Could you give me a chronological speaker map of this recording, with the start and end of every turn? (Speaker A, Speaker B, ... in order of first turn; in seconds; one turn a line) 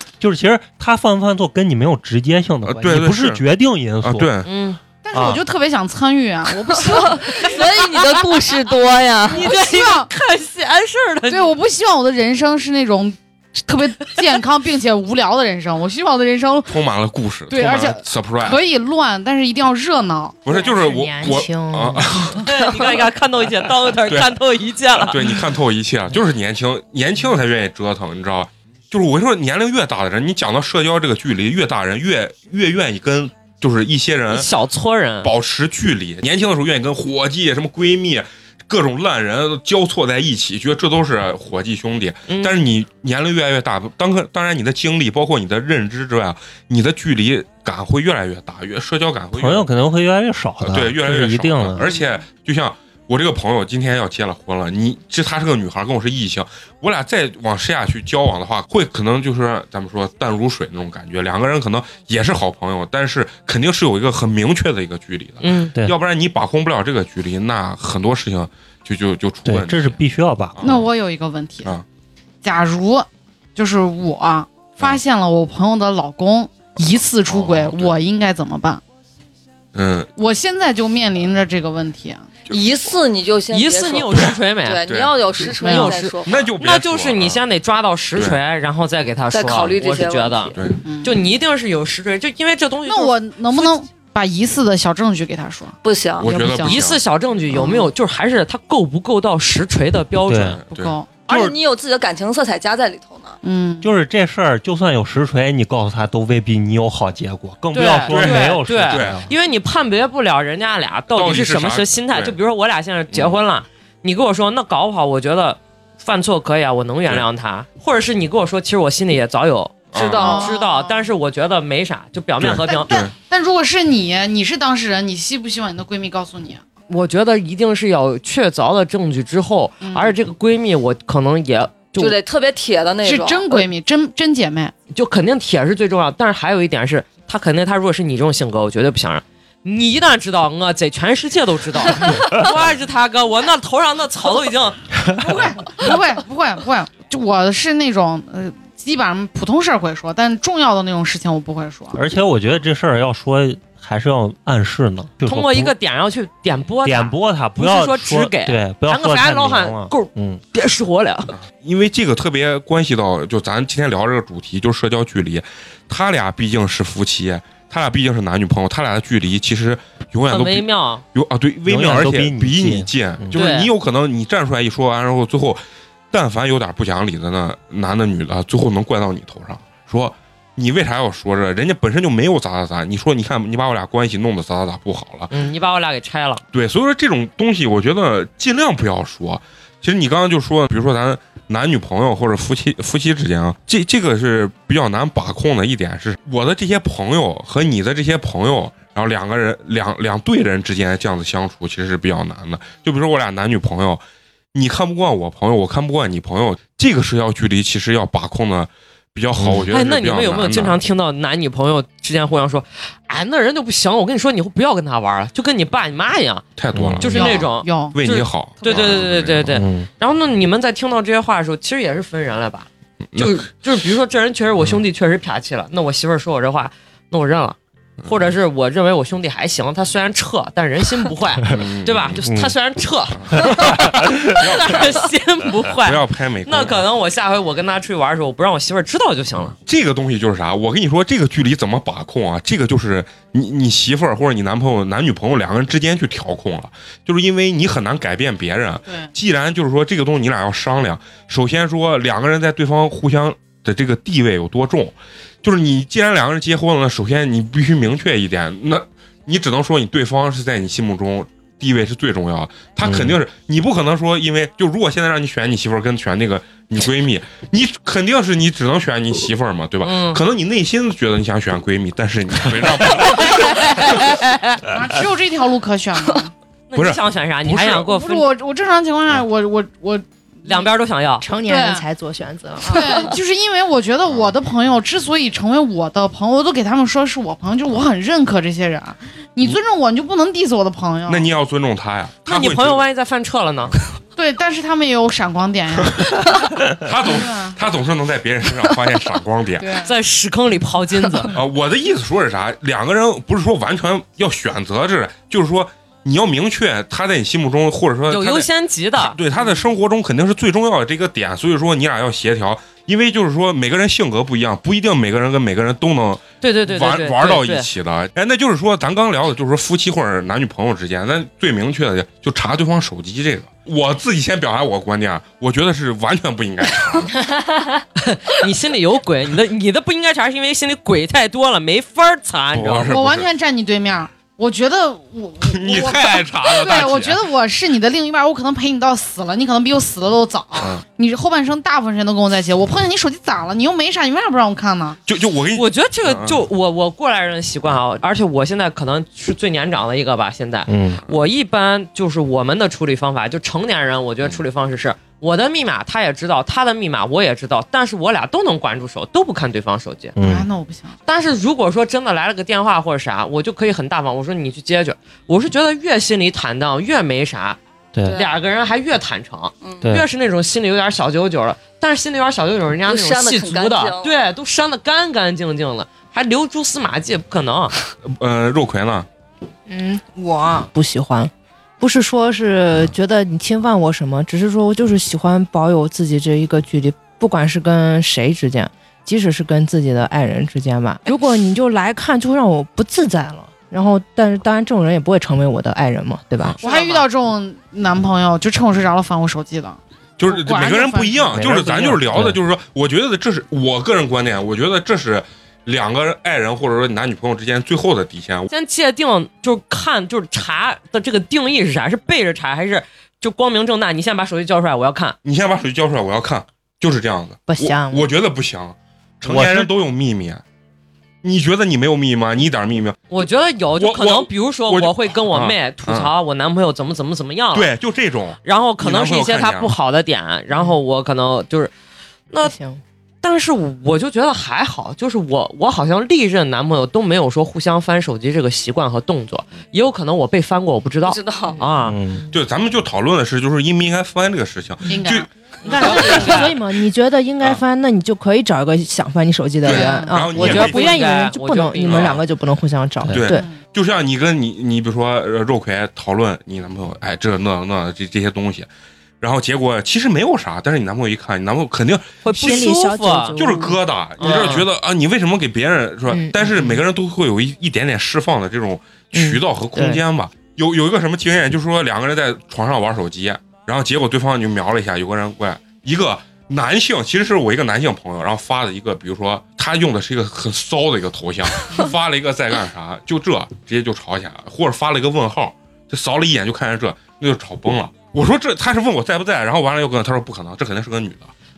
Speaker A: 0.2-4.3
Speaker B: 2.6-3.4
Speaker B: 4.0-4.5
Speaker C: 4.5-4.8
Speaker D: 5.0-8.3
Speaker A: 5.1-5.4
Speaker E: 6.8-9.5
Speaker C: 9.3-11.5
Speaker D: 9.3-10.1
Speaker D: 11.3-16.8
Speaker B: 16.7-18.6
Speaker D: 17.5-20.5
Speaker B: 20.4-22.5
Speaker F: 20.5-22.4
Speaker C: 22.4-25.2
Speaker B: 24.1-24.4
Speaker B: 25.0-34.5
Speaker C: 34.3-35.3
Speaker B: 35.2-49.7
Speaker C: 42.3-42.6
Speaker A: 49.3-51.9
Speaker B: 50.6-70.0
Speaker C: 65.4-65.7
Speaker A: 69.5-70.7
Speaker B: 70.6-70.9
Speaker D: 70.6-71.7
Speaker D: 72.4-78.8
Speaker B: 77.3-78.0
Speaker B: 79.7-80.1
Speaker D: 80.2-82.3
Speaker E: 82.5-86.5
Speaker C: 83.5-84.8
Speaker B: 84.9-85.5
Speaker D: 85.6-85.9
Speaker C: 85.6-93.7
Speaker B: 86.3-87.4
Speaker E: 89.3-90.6
Speaker B: 90.5-90.8
Speaker D: 90.8-91.2
Speaker D: 92.9-96.8
Speaker E: 95.8-96.3
Speaker B: 96.2-97.0
Speaker C: 96.7-100.6
Speaker E: 97.6-97.8
Speaker A: 100.3-100.6
Speaker B: 100.5-101.0
Speaker D: 100.7-101.2
Speaker E: 101.3-103.4
Speaker A: 101.3-101.5
Speaker D: 103.4-103.9
Speaker A: 103.8-109.3
Speaker C: 107.7-122.9
Speaker B: 108.1-109.2
Speaker B: 111.1-112.3
Speaker B: 113.1-113.4
Speaker B: 119.9-120.4
Speaker E: 119.9-120.5
Speaker D: 120.2-121.1
Speaker B: 122.4-123.1
Speaker D: 122.7-126.6
Speaker C: 126.9-132.2
Speaker D: 129.8-130.2
Speaker E: 132.0-133.7
Speaker D: 133.1-134.7
Speaker C: 134.9-144.9
Speaker D: 145.2-152.0
Speaker A: 151.9-155.7
Speaker C: 155.2-161.3
Speaker A: 156.8-160.4
Speaker B: 161.4-185.3
Speaker C: 170.3-171.0
Speaker A: 171.7-173.4
Speaker C: 173.3-173.7
Speaker C: 185.3-186.4
Speaker B: 186.5-204.0
Speaker B: 204.5-210.8
Speaker A: 209.4-209.7
Speaker C: 209.7-216.4
Speaker B: 216.6-219.6
Speaker A: 216.7-217.2
Speaker C: 217.0-239.6
Speaker D: 217.1-218.0
Speaker D: 218.6-219.0
Speaker A: 219.5-219.9
Speaker B: 223.1-223.5
Speaker B: 231.5-232.2
Speaker A: 232.2-232.6
Speaker B: 233.2-234.9
Speaker B: 235.8-236.8
Speaker B: 239.7-273.7
Speaker A: 262.8-263.2
Speaker C: 269.8-270.2
Speaker C: 272.9-274.7
Speaker D: 274.7-276.3
Speaker C: 276.7-278.3
Speaker B: 276.8-277.9
Speaker D: 277.9-280.7
Speaker C: 280.4-281.3
Speaker F: 281.2-283.2
Speaker D: 281.4-281.8
Speaker D: 282.7-291.3
Speaker B: 284.1-284.3
Speaker B: 291.1-292.8
Speaker C: 292.3-293.8
Speaker D: 294.2-297.6
Speaker B: 296.7-299.8
Speaker D: 299.6-299.9
Speaker C: 299.8-301.3
Speaker B: 301.3-327.1
Speaker C: 308.1-309.2
Speaker D: 309.4-309.7
Speaker C: 316.4-317.7
Speaker C: 328.0-332.9
Speaker B: 332.5-333.3
Speaker D: 332.9-345.0
Speaker B: 335.5-337.3
Speaker B: 340.6-340.8
Speaker B: 345.1-346.4
Speaker C: 345.6-360.1
Speaker A: 350.7-351.0
Speaker A: 360.2-360.5
Speaker D: 360.2-361.0
Speaker C: 361.1-367.6
Speaker E: 368.1-368.3
Speaker C: 368.1-377.7
Speaker E: 369.6-369.9
Speaker E: 372.9-374.2
Speaker B: 378.1-379.1
Speaker F: 379.7-396.6
Speaker C: 396.6-397.1
Speaker D: 396.6-401.6
Speaker B: 400.2-408.5
Speaker A: 401.3-402.4
Speaker C: 408.5-415.2
Speaker B: 415.2-420.4
Speaker F: 417.5-418.1
Speaker A: 419.2-419.7
Speaker B: 421.2-423.0
Speaker C: 423.1-427.7
Speaker B: 423.8-426.1
Speaker B: 427.5-429.7
Speaker C: 428.4-431.7
Speaker F: 432.4-432.8
Speaker C: 433.2-442.0
Speaker E: 441.0-441.6
Speaker A: 441.8-442.3
Speaker B: 442.3-445.3
Speaker D: 444.9-445.3
Speaker F: 445.6-453.5
Speaker C: 445.8-446.1
Speaker B: 446.0-446.4
Speaker D: 446.1-446.4
Speaker B: 449.6-450.9
Speaker D: 449.7-450.2
Speaker C: 450.3-452.2
Speaker B: 451.9-452.2
Speaker B: 453.1-458.7
Speaker D: 453.3-453.6
Speaker B: 459.2-462.2
Speaker C: 462.2-463.4
Speaker F: 462.3-464.5
Speaker B: 463.4-491.3
Speaker C: 464.2-464.7
Speaker F: 466.1-466.8
Speaker F: 469.1-470.0